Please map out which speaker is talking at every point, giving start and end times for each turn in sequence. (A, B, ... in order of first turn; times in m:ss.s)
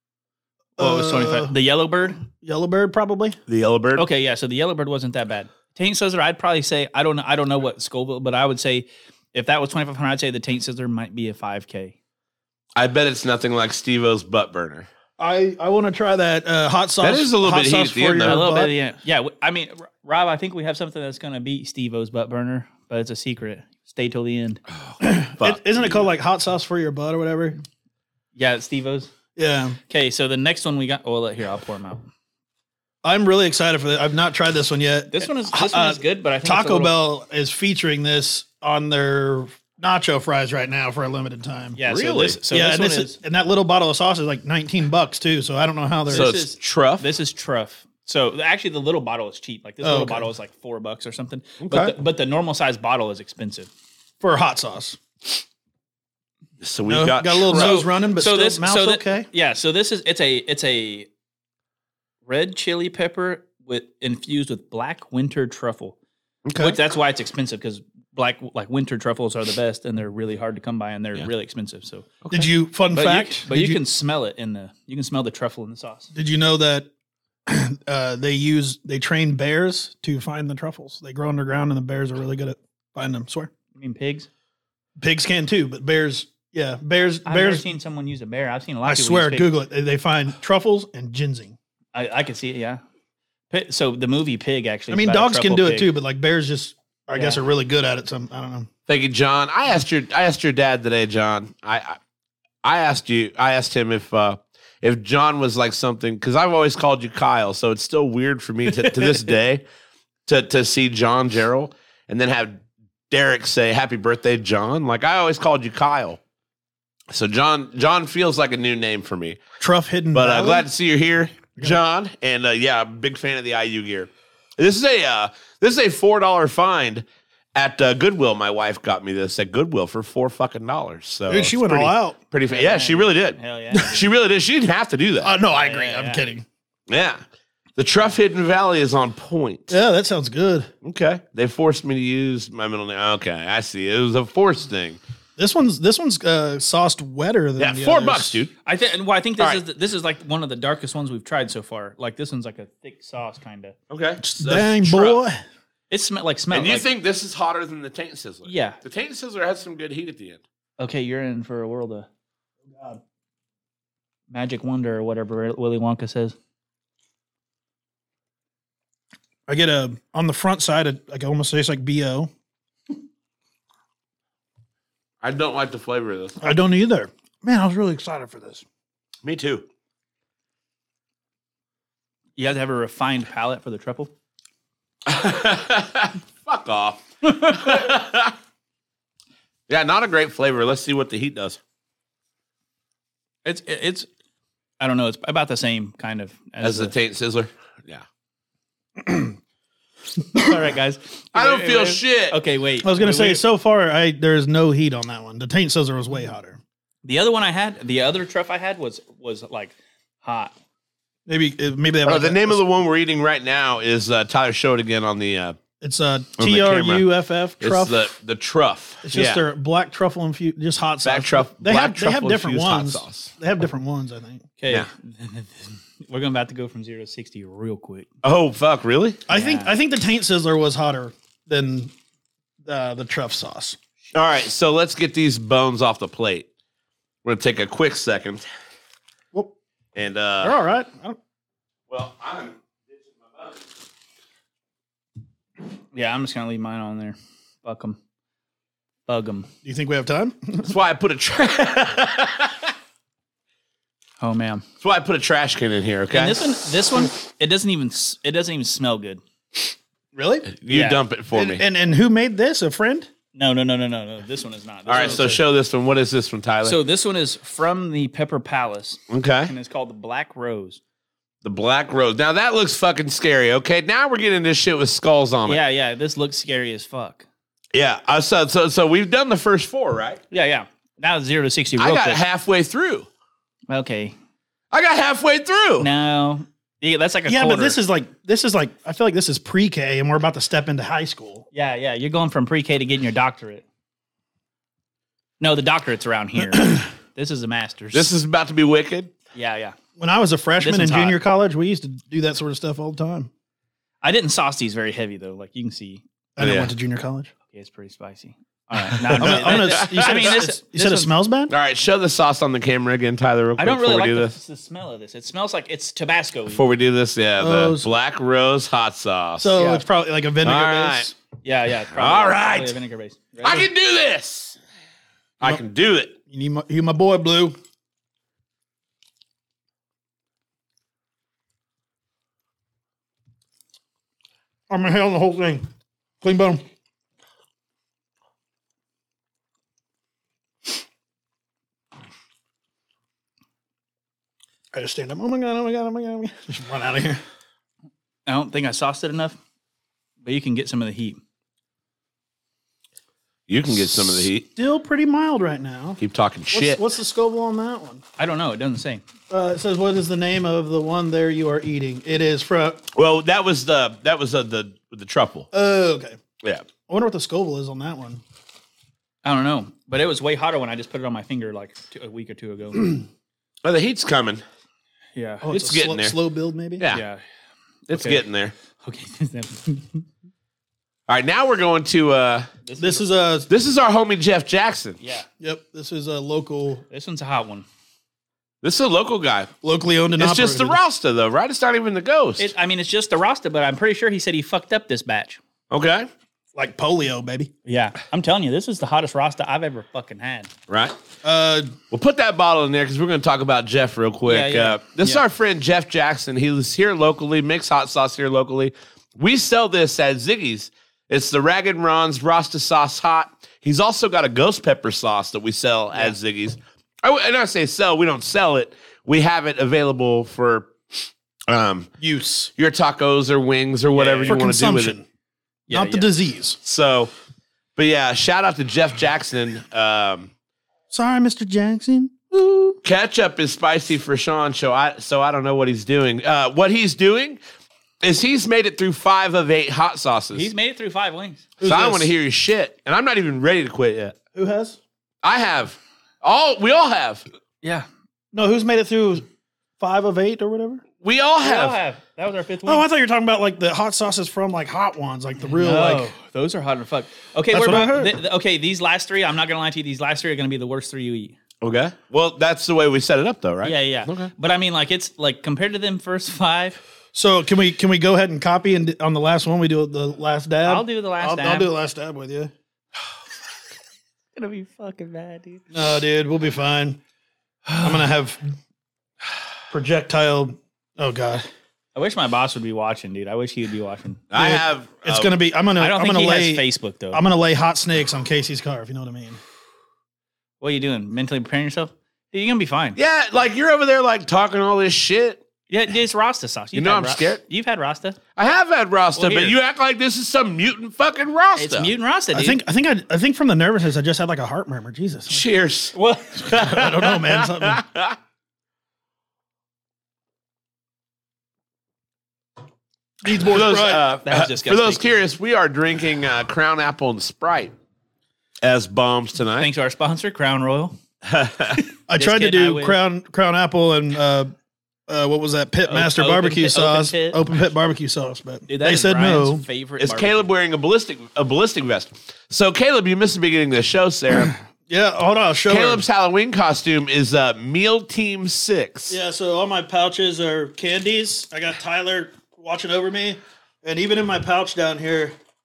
0:00.8-0:01.5 A
0:00.8-0:02.2 B
0:02.2-0:03.4 A
0:03.5-0:04.0 C
0:04.0-0:12.0 B
0:12.8-0:14.9 C
0:15.2-0:18.7 A
0:17.0-0:18.4 C
0:18.2-0:24.6 B
0:24.8-0:26.1 C
0:25.0-0:27.6 A
0:28.4-0:29.1 B
0:29.4-0:29.8 A
0:29.9-0:32.1 B
0:33.0-0:41.8 A
0:35.1-0:37.0 B
0:41.8-0:43.2 B
0:41.9-0:42.4 C
0:42.5-0:46.3 A
0:46.1-0:53.7 B
0:46.1-0:47.1 C
0:49.8-0:50.3 A
0:51.6-0:52.0 C
0:54.2-0:55.0 A
0:56.6-0:57.8 C
0:56.9-0:59.3 A
0:57.5-1:01.1 B
1:02.3-1:06.0 B
1:06.4-1:06.8 C
1:06.6-1:12.1 B
1:12.3-1:13.8 A
1:12.9-1:16.1 B
1:16.1-1:16.9 A
1:17.5-1:23.5 A
1:23.8-1:24.3 B
1:25.0-1:27.6 A
1:27.2-1:29.5 B
1:28.8-1:31.6 A
1:31.9-1:32.8 B
1:33.5-1:35.9 B
1:34.9-1:38.7 A
1:37.1-1:37.4 B
1:38.9-1:42.0 C
1:42.6-1:49.6 C
1:48.8-1:49.2 B
1:50.3-1:56.2 C
1:57.1-1:59.4 C
1:59.6-2:00.7 A
2:00.1-2:07.0 C
2:07.6-2:15.3 C
2:11.3-2:12.2 A
2:12.5-2:14.1 B
2:15.2-2:16.4 A
2:15.5-2:16.3 B
2:16.9-2:17.2 C
2:17.8-2:19.8 C
2:19.7-2:20.7 A
2:20.8-2:25.0 C
2:25.4-2:28.4 A
2:27.6-2:28.5 C
2:28.6-2:33.8 B
2:33.9-2:35.2 C
2:34.2-2:35.4 A
2:35.9-2:36.9 B
2:36.5-2:40.4 C
2:38.4-2:38.8 B
2:40.8-2:42.1 B
2:42.7-2:43.0 A
2:44.3-2:46.4 B
2:49.5-2:52.3 A
2:55.2-2:56.4 C
2:56.4-2:58.6 A
2:59.2-2:59.7 C
3:02.4-3:04.1 B
3:05.1-3:08.4 C
3:09.7-3:11.6 C
3:13.4-3:14.1 B
3:14.8-3:16.9 B
3:16.6-3:18.0 C
3:19.0-3:19.4 A
3:20.3-3:23.4 B
3:21.3-3:22.4 C
3:22.8-3:26.6 A
3:27.0-3:30.5 B
3:31.3-3:32.6 A
3:32.0-3:35.6 C
3:35.8-3:38.1 A
3:36.4-3:37.1 C
3:37.6-3:39.4 C
3:39.0-3:44.5 A
3:41.0-3:43.3 C
3:44.6-3:48.1 B
3:48.2-3:49.2 C
3:49.3-3:51.9 A
3:49.3-3:49.7 B
3:52.6-3:53.8 A
3:54.1-3:56.5 C
3:57.2-3:58.4 C
4:00.0-4:00.6 C
4:00.4-4:01.2 A
4:01.9-4:03.6 C
4:05.9-4:08.0 B
4:09.1-4:09.5 B
4:09.6-4:10.7 A
4:10.6-4:12.7 C
4:14.2-4:14.6 B
4:14.8-4:16.4 C
4:16.1-4:19.2 B
4:20.1-4:20.5 A
4:20.5-4:21.6 C
4:20.7-4:21.0 B
4:21.3-4:23.1 A
4:23.4-4:25.4 B
4:24.9-4:26.8 C
4:25.0-4:25.4 A
4:26.6-4:30.8 B
4:29.1-4:29.5 C
4:31.4-4:35.6 C
4:35.5-4:37.3 B
4:37.7-4:40.2 C
4:40.3-4:42.2 B
4:41.8-4:43.1 C
4:43.7-4:44.2 B
4:44.7-4:45.9 C
4:45.8-4:47.8 B
4:47.3-4:51.5 A
4:51.5-4:53.6 B
4:55.4-4:58.1 B
4:57.9-4:59.1 C
4:59.4-4:59.8 B
5:00.0-5:03.3 A
5:00.6-5:01.2 B
5:04.0-5:06.0 B
5:06.4-5:07.3 A
5:06.4-5:06.7 C
5:07.5-5:11.1 B
5:09.0-5:10.4 C
5:09.1-5:11.5 A
5:11.5-5:14.4 C
5:13.6-5:16.6 B
5:16.5-5:19.6 C
5:17.4-5:17.9 A
5:19.4-5:21.1 A
5:20.4-5:21.1 C
5:21.4-5:23.7 B
5:21.9-5:22.7 C
5:23.4-5:24.6 C
5:25.4-5:26.2 C
5:26.3-5:27.6 A
5:34.7-5:35.7 A
5:36.2-5:36.6 A
5:44.7-5:47.2 A
5:48.3-5:49.4 B
5:50.2-5:51.2 B
5:53.5-5:54.5 C
5:54.6-5:56.0 A
5:56.0-5:56.8 C
5:56.5-5:58.0 A
5:58.2-5:59.0 B
5:59.3-6:02.8 A
6:02.9-6:05.5 C
6:05.5-6:06.2 A
6:06.9-6:08.2 A
6:09.2-6:13.0 B
6:13.6-6:14.4 C
6:15.2-6:15.5 B
6:15.4-6:16.8 A
6:15.5-6:16.2 C
6:16.8-6:17.0 C
6:16.9-6:17.2 B
6:17.9-6:18.2 B
6:17.9-6:18.5 C
6:18.8-6:20.0 B
6:21.1-6:22.5 C
6:22.6-6:23.0 B
6:22.8-6:23.5 A
6:23.5-6:25.0 C
6:25.0-6:25.3 B
6:25.4-6:26.8 A
6:26.9-6:27.7 B
6:28.6-6:29.5 C
6:29.6-6:30.8 A
6:30.2-6:32.5 C
6:32.4-6:35.4 B
6:35.7-6:36.1 C
6:36.5-6:37.5 A
6:37.7-6:40.5 B
6:40.7-6:41.0 C
6:41.2-6:41.7 A
6:41.9-7:00.7 C
6:44.3-6:45.2 B
7:01.5-7:01.9 C
7:02.0-7:02.5 A
7:02.6-7:05.0 C
7:03.9-7:04.4 B
7:04.3-7:05.0 A
7:05.7-7:06.1 B
7:05.7-7:06.6 A
7:06.6-7:07.1 C
7:07.8-7:10.3 C
7:10.9-7:12.8 A
7:12.8-7:17.4 C
7:18.0-7:20.5 C
7:20.3-7:21.5 B
7:21.6-7:22.1 A
7:21.6-7:24.2 C
7:24.4-7:24.8 A
7:25.2-7:27.2 C
7:28.3-7:29.2 A
7:29.8-7:30.8 A
7:31.0-7:31.8 C
7:31.4-7:32.9 B
7:32.7-7:36.1 A
7:35.5-7:41.4 B
7:37.5-7:38.2 A
7:41.6-7:44.3 C
7:43.6-7:46.8 B
7:47.1-7:52.5 A
7:50.6-7:51.7 B
7:54.4-7:55.6 B
7:55.7-7:57.0 A
7:57.7-7:58.0 B
7:57.8-7:58.4 A
7:59.7-8:01.5 A
8:02.0-8:04.2 B
8:04.3-8:05.3 C
8:04.4-8:09.4 A
8:05.8-8:07.2 B
8:10.6-8:13.0 B
8:13.0-8:15.4 C
8:15.7-8:18.2 B
8:16.7-8:17.4 C
8:18.4-8:21.9 C
8:19.2-8:19.6 B
8:21.6-8:22.6 B
8:22.3-8:25.5 A
8:25.3-8:25.9 C
8:26.0-8:26.8 B
8:26.4-8:27.8 A
8:26.7-8:28.2 C
8:33.2-8:34.1 A
8:33.5-8:37.7 C
8:34.2-8:35.1 B
8:38.6-8:39.7 C
8:39.6-8:41.0 B
8:41.2-8:41.8 C
8:41.8-8:43.0 B
8:42.1-8:44.5 A
8:45.1-8:49.6 A
8:45.9-8:47.4 B
8:48.7-8:50.5 B
8:50.0-8:54.6 C
8:54.9-8:56.0 A
8:55.7-8:59.2 C
8:59.1-9:05.4 A